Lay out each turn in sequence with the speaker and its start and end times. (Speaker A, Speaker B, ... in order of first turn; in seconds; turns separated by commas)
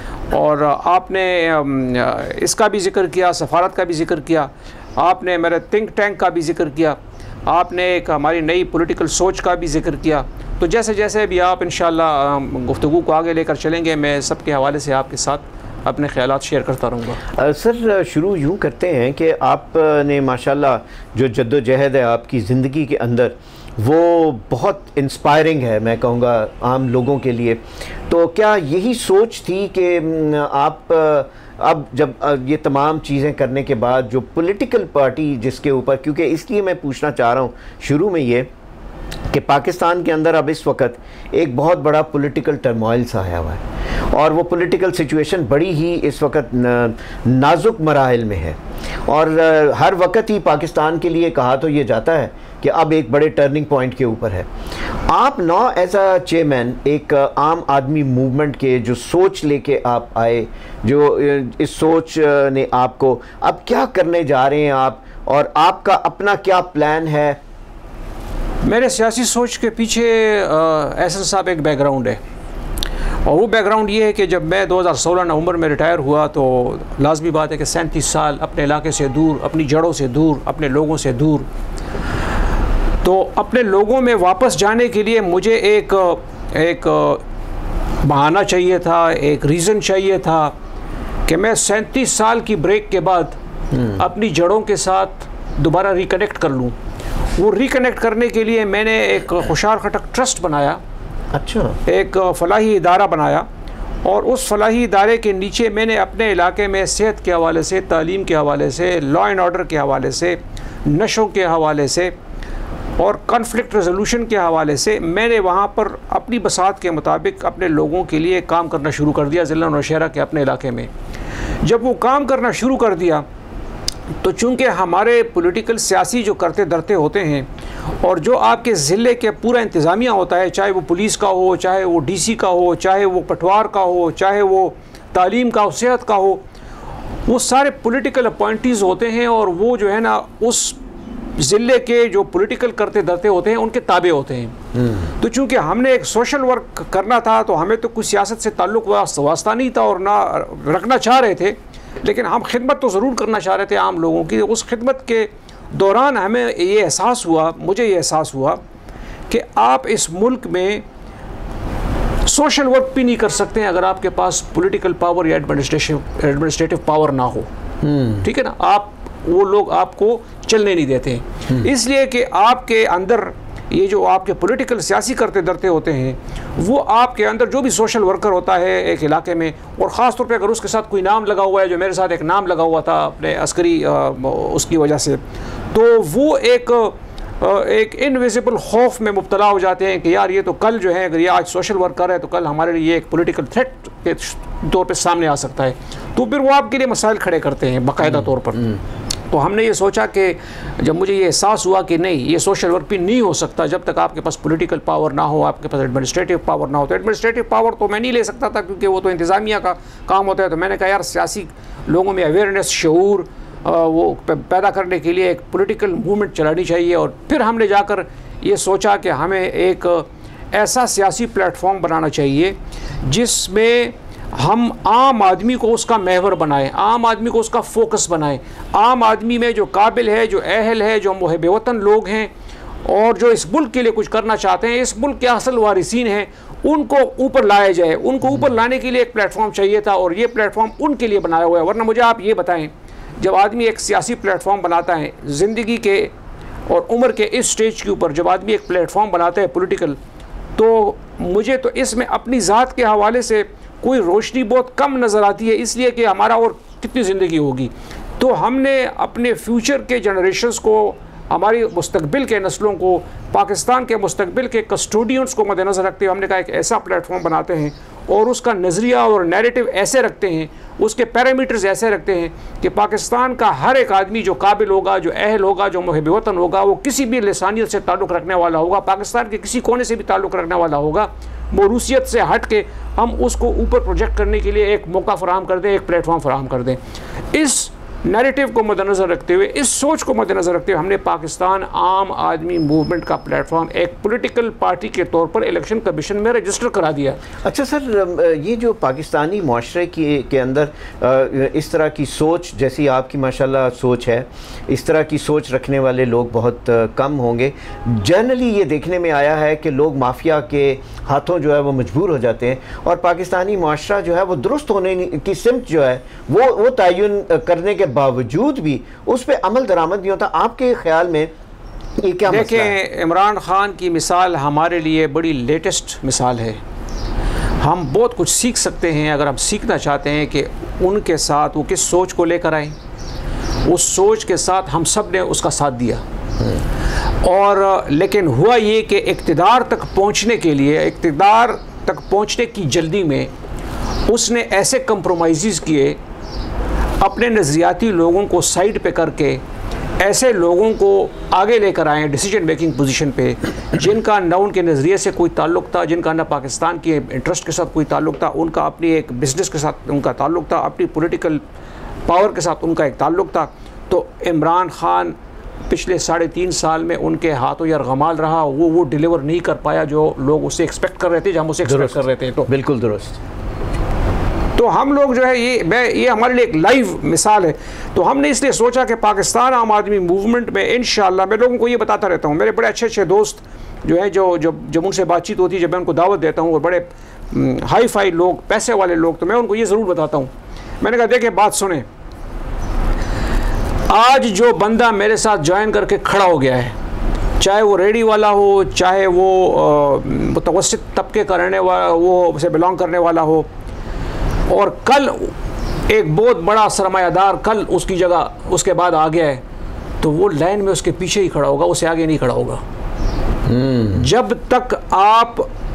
Speaker A: 0.3-17.2, Speaker B: 17.3-38.5, Speaker B: 39.3-43.6, Speaker B: 44.1-54.5, Speaker B: 55.1-67.4, Speaker A: 68.6-72.2, Speaker A: 73.2-81.5, Speaker A: 83.0-87.2, Speaker A: 88.0-90.5, Speaker A: 91.3-96.8, Speaker A: 97.3-100.8, Speaker B: 101.3-101.8, Speaker A: 101.8-103.5, Speaker A: 104.0-112.1, Speaker A: 113.0-120.9, Speaker A: 121.6-123.2, Speaker A: 124.2-127.5, Speaker A: 128.0-136.4, Speaker A: 137.3-140.8, Speaker A: 141.4-144.6, Speaker B: 144.8-145.0, Speaker A: 145.2-158.6, Speaker A: 159.3-160.8, Speaker A: 162.2-167.5, Speaker B: 167.8-168.2, Speaker A: 168.2-185.2, Speaker A: 185.7-198.8, Speaker A: 199.3-232.3, Speaker A: 232.8-246.1, Speaker A: 246.7-250.0, Speaker A: 250.6-286.8, Speaker A: 287.3-297.2, Speaker B: 297.4-321.3, Speaker B: 322.0-322.7, Speaker A: 322.3-326.6, Speaker A: 327.6-332.8, Speaker A: 333.6-336.0, Speaker A: 337.2-343.3, Speaker A: 344.1-346.0, Speaker A: 347.0-349.4, Speaker A: 350.0-361.4, Speaker A: 362.1-365.1, Speaker A: 365.7-372.5, Speaker B: 371.6-373.2, Speaker A: 374.6-391.9, Speaker A: 393.9-396.8, Speaker A: 397.4-403.5, Speaker A: 404.5-405.3, Speaker A: 405.9-409.4, Speaker A: 410.0-412.6, Speaker B: 413.5-414.0, Speaker A: 413.9-415.5